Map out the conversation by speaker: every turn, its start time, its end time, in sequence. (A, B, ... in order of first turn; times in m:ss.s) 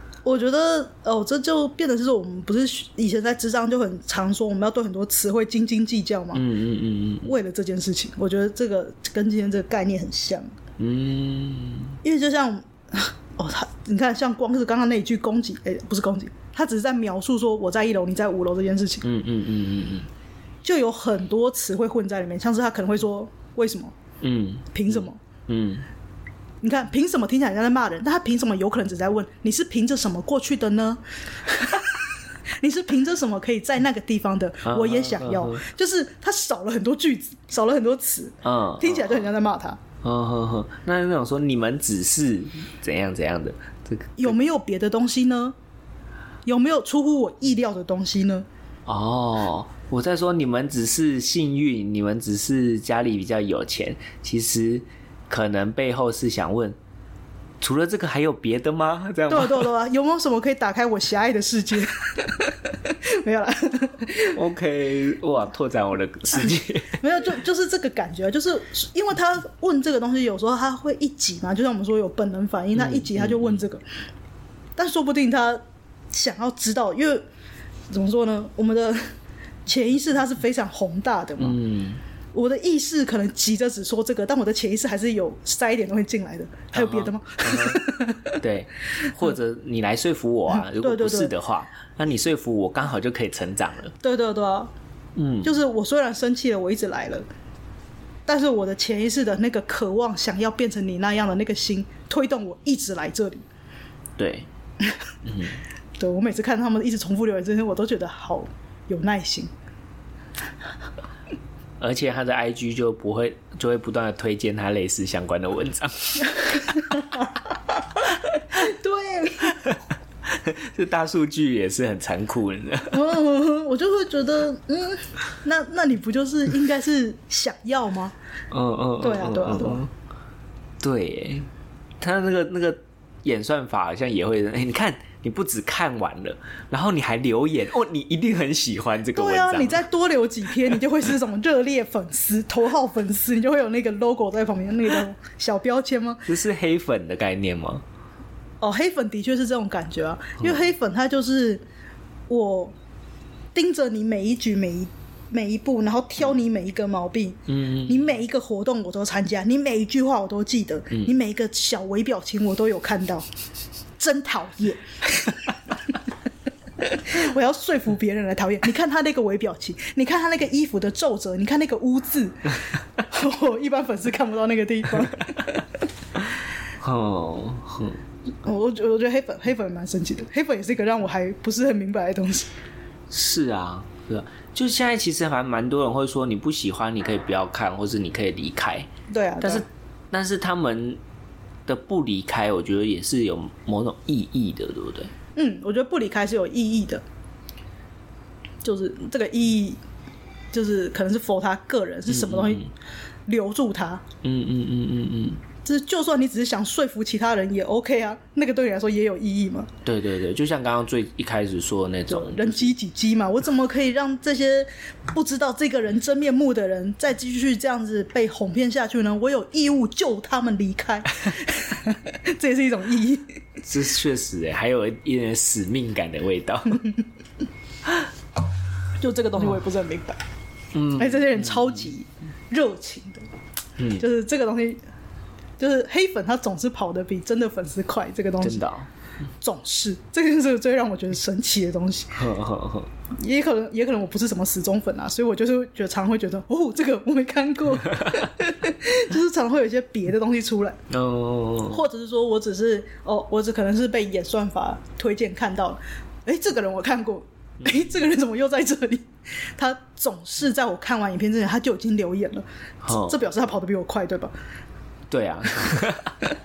0:00.2-0:06.4 A
0:06.3-0:07.3 B
0:07.2-0:10.5 A
0:10.8-0:12.0 B
0:12.0-0:19.1 A
0:19.0-0:20.1 B
0:20.6-0:23.9 A
0:24.2-0:25.9 B
0:24.7-0:25.2 A
0:26.6-0:32.0 A
0:32.6-0:39.8 A
0:34.6-0:35.6 B
0:38.4-0:39.3 B
0:40.0-0:44.4 B
0:44.2-0:45.6 A
0:46.5-0:48.5 A
0:48.9-0:56.8 B
0:57.6-0:59.7 B
0:59.3-1:04.4 A
1:04.3-1:07.0 B
1:07.0-1:13.8 A
1:12.8-1:13.6 B
1:14.8-1:17.2 A
1:17.9-1:19.1 A
1:19.7-1:21.6 A
1:21.4-1:22.0 B
1:22.3-1:28.4 A
1:26.7-1:33.9 B
1:30.5-1:31.3 A
1:34.0-1:34.7 A
1:35.2-1:35.5 B
1:35.4-1:37.2 A
1:38.3-1:43.4 A
1:44.2-1:44.5 B
1:45.2-1:45.6 B
1:46.0-1:49.5 A
1:51.8-1:57.0 B
1:56.9-1:57.2 A
1:58.3-1:59.7 A
1:59.6-2:03.0 B
2:02.9-2:08.1 A
2:08.5-2:09.9 B
2:09.0-2:09.8 A
2:10.8-2:11.5 B
2:12.0-2:19.8 B
2:19.1-2:26.3 A
2:26.3-2:27.8 B
2:28.6-2:31.6 A
2:32.3-2:32.7 A
2:33.6-2:43.3 A
2:37.5-2:38.1 B
2:44.0-2:46.0 A
2:46.8-2:55.6 A
2:56.8-2:58.0 B
2:58.4-3:02.5 A
3:03.1-3:08.9 B
3:09.1-3:09.6 A
3:09.4-3:11.0 B
3:11.7-3:15.1 B
3:15.4-3:17.0 A
3:18.6-3:19.8 A
3:20.5-3:22.7 A
3:22.1-3:22.7 B
3:23.3-3:24.0 A
3:24.2-3:25.4 B
3:25.6-3:29.7 A
3:29.8-3:32.7 B
3:32.1-3:43.4 A
3:43.6-3:46.8 B
3:49.0-3:50.2 A
3:50.7-3:51.8 B
3:50.9-3:53.2 A
3:53.8-3:54.1 B
3:54.0-3:54.8 A
3:55.6-3:58.6 A
3:58.4-3:58.9 B
3:59.4-4:02.2 A
4:02.1-4:02.9 B
4:03.2-4:10.8 A
4:10.9-4:11.8 B
4:11.7-4:24.3 A
4:22.8-4:23.2 B
4:25.1-4:26.2 B